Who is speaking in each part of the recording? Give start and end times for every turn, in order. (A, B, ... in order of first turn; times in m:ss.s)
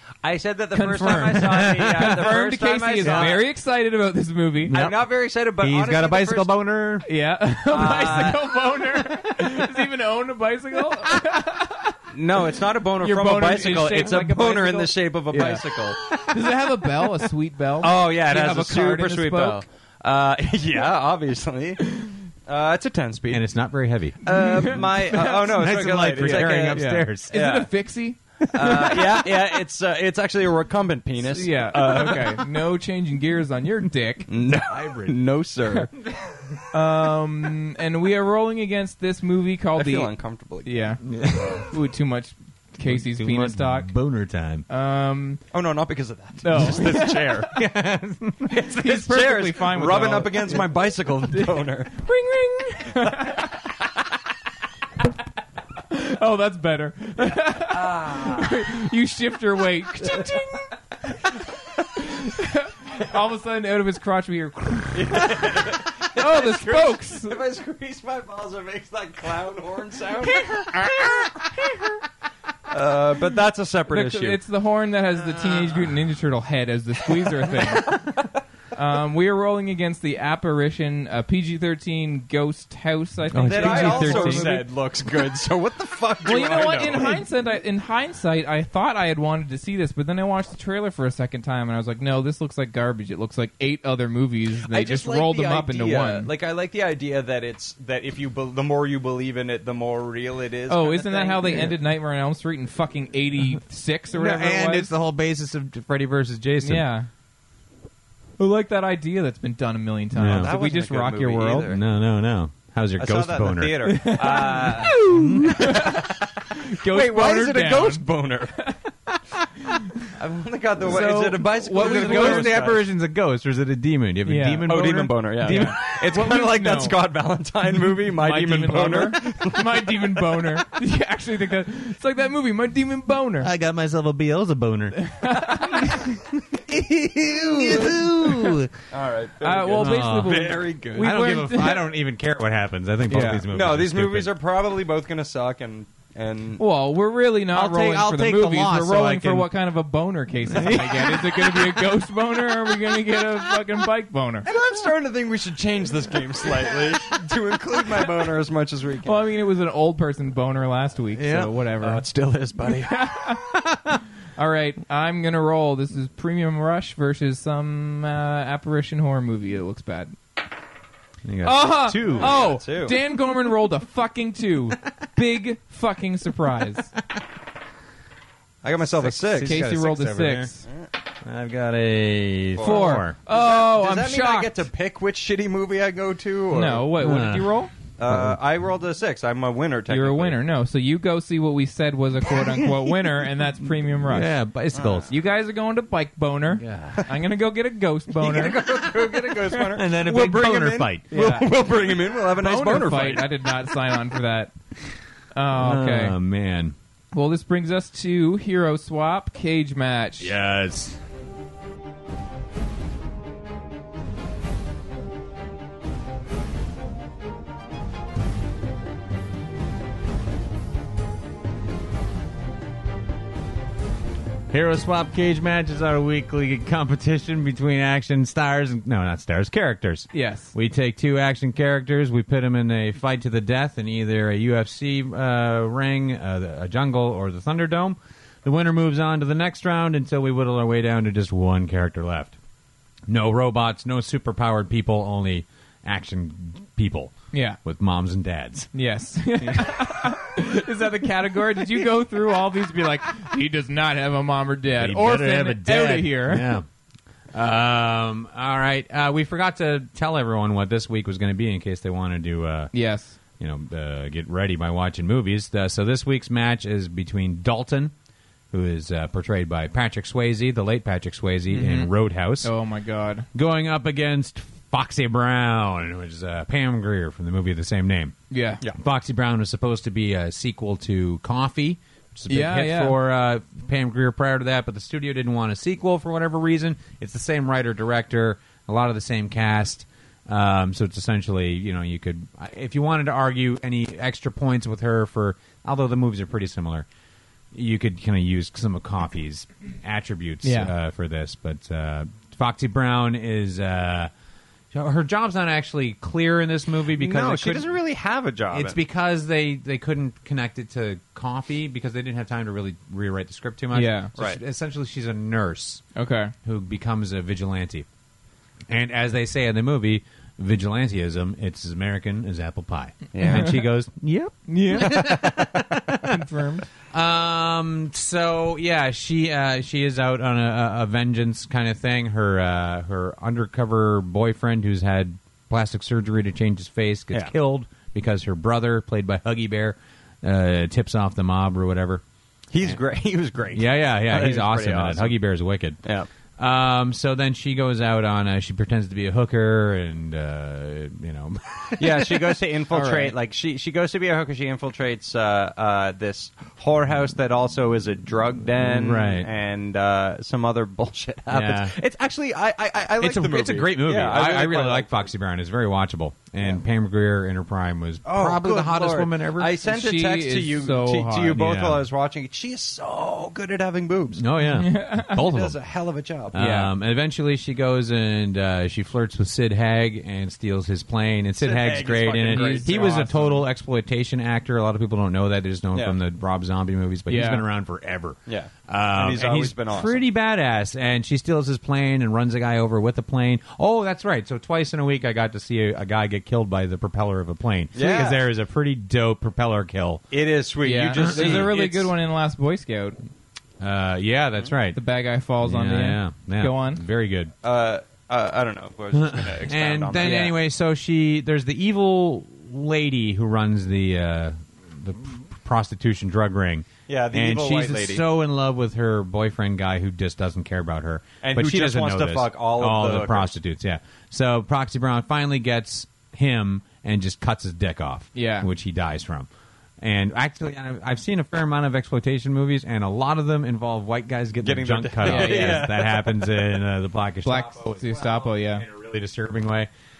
0:00.2-0:03.4 A
0:00.7-0:04.8 B
0:01.5-0:02.1 C
0:03.0-0:03.4 C
0:04.6-0:07.0 C
0:04.7-0:06.6 A
0:07.0-0:12.0 B
0:07.7-0:08.5 A
0:12.1-0:16.2 A
0:13.0-0:19.6 B
0:17.8-0:23.7 A
0:23.3-0:27.3 C
0:24.2-0:27.7 A
0:24.2-0:25.6 B
0:26.2-0:29.3 B
0:28.5-0:32.4 A
0:31.3-0:34.3 B
0:34.3-0:35.9 A
0:34.6-0:35.2 C
0:36.0-0:36.6 C
0:36.7-0:40.1 B
0:39.8-0:40.9 A
0:40.6-0:43.9 B
0:41.0-0:41.7 C
0:42.8-0:44.6 C
0:44.7-0:45.4 B
0:45.5-0:47.5 A
0:46.4-0:47.4 B
0:47.5-0:48.7 C
0:48.6-0:50.7 B
0:48.7-0:51.9 A
0:51.3-0:53.7 B
0:55.9-1:01.3 B
0:57.5-0:58.6 A
1:01.9-1:07.4 B
1:04.9-1:11.5 A
1:10.3-1:11.3 B
1:12.7-1:14.4 A
1:13.9-1:18.0 B
1:17.4-1:18.2 A
1:18.7-1:24.6 B
1:23.3-1:24.6 C
1:23.5-1:27.2 A
1:26.2-1:36.3 B
1:34.7-1:41.7 A
1:40.7-1:44.9 B
1:44.1-1:46.8 C
1:46.6-1:47.1 B
1:48.4-1:51.7 B
1:50.1-1:50.5 C
1:50.2-1:51.8 A
1:51.7-1:55.9 C
1:53.0-1:55.0 A
1:53.8-1:58.0 B
1:56.8-1:58.7 A
1:59.6-1:59.9 B
2:00.1-2:02.9 A
2:00.8-2:02.7 B
2:01.7-2:05.9 C
2:04.2-2:04.8 B
2:04.6-2:10.0 A
2:05.4-2:07.0 B
2:08.0-2:13.5 B
2:13.4-2:18.7 C
2:15.0-2:16.2 B
2:17.4-2:18.1 A
2:18.9-2:21.1 A
2:19.4-2:21.9 B
2:19.7-2:24.3 C
2:23.1-2:23.4 B
2:23.5-2:26.6 A
2:26.6-2:34.5 B
2:27.5-2:29.5 C
2:30.5-2:31.8 C
2:34.4-2:39.2 A
2:39.0-2:42.0 B
2:41.2-2:41.5 C
2:41.8-2:43.2 A
2:42.9-2:43.4 B
2:43.5-2:44.0 C
2:44.4-2:50.2 B
2:51.2-2:52.4 C
2:51.4-2:56.9 B
2:52.0-2:53.0 A
2:58.6-2:59.6 A
2:58.8-3:00.5 C
2:59.4-3:00.6 B
3:00.6-3:00.9 A
3:01.2-3:03.2 C
3:02.5-3:06.9 A
3:02.6-3:04.6 B
3:06.5-3:07.7 B
3:07.0-3:08.4 C
3:08.0-3:10.4 A
3:09.9-3:14.3 B
3:14.0-3:15.1 C
3:14.7-3:15.1 A
3:15.1-3:18.6 B
3:16.5-3:17.0 C
3:18.1-3:23.3 A
3:19.7-3:21.4 C
3:21.1-3:21.5 B
3:22.4-3:24.5 B
3:25.3-3:26.2 B
3:25.5-3:26.7 C
3:27.1-3:30.3 B
3:30.2-3:31.0 C
3:44.5-4:02.4 C
3:50.1-3:50.5 B
4:03.1-4:08.7 C
4:07.3-4:07.6 B
4:08.7-4:16.5 B
4:09.4-4:09.8 C
4:14.7-4:16.6 C
4:17.3-4:22.7 C
4:22.7-4:23.2 B
4:23.4-4:27.9 C
4:28.5-4:32.5 C
4:31.5-4:33.3 B
4:33.3-4:38.1 C
4:38.3-4:38.6 B
4:38.7-4:56.9 C
4:42.3-4:43.0 B
4:57.5-5:04.1 C
5:00.4-5:00.7 B
5:04.7-5:07.7 C
5:06.9-5:08.8 A
5:08.5-5:15.8 C
5:13.7-5:14.1 B
5:16.0-5:16.3 B
5:16.4-5:17.8 C
5:18.7-5:26.2 C
5:23.1-5:23.6 A
5:23.3-5:23.6 B
5:24.5-5:25.2 B
5:24.8-5:25.6 A
5:26.0-5:26.6 B
5:26.9-5:42.0 C
5:42.5-5:45.2 A
5:43.5-5:45.8 C
5:46.4-5:52.4 C
5:51.8-6:05.0 A
5:52.7-5:53.1 B
5:58.6-5:59.3 C
6:01.3-6:01.8 C
6:03.0-6:09.5 C
6:08.0-6:14.2 A
6:09.6-6:11.4 B
6:11.3-6:11.8 C
6:14.2-6:15.6 C
6:14.5-6:15.2 B
6:15.1-6:16.3 A
6:16.3-6:40.0 C
6:16.3-6:16.7 B
6:21.4-6:23.4 A
6:22.3-6:23.2 B
6:27.1-6:27.4 B
6:28.3-6:30.0 A
6:37.7-6:38.2 A
6:40.1-6:41.9 A
6:40.6-6:43.0 B
6:41.0-6:41.6 C
6:43.6-6:44.8 C
6:44.7-6:46.8 B
6:45.4-6:47.3 C
6:47.4-6:50.3 A
6:48.9-7:09.3 C
6:50.0-6:50.3 B
6:56.9-6:58.0 A
7:01.2-7:03.3 A
7:08.1-7:08.5 B
7:09.8-7:19.7 C
7:14.4-7:16.6 A
7:15.0-7:15.7 B
7:17.2-7:18.6 B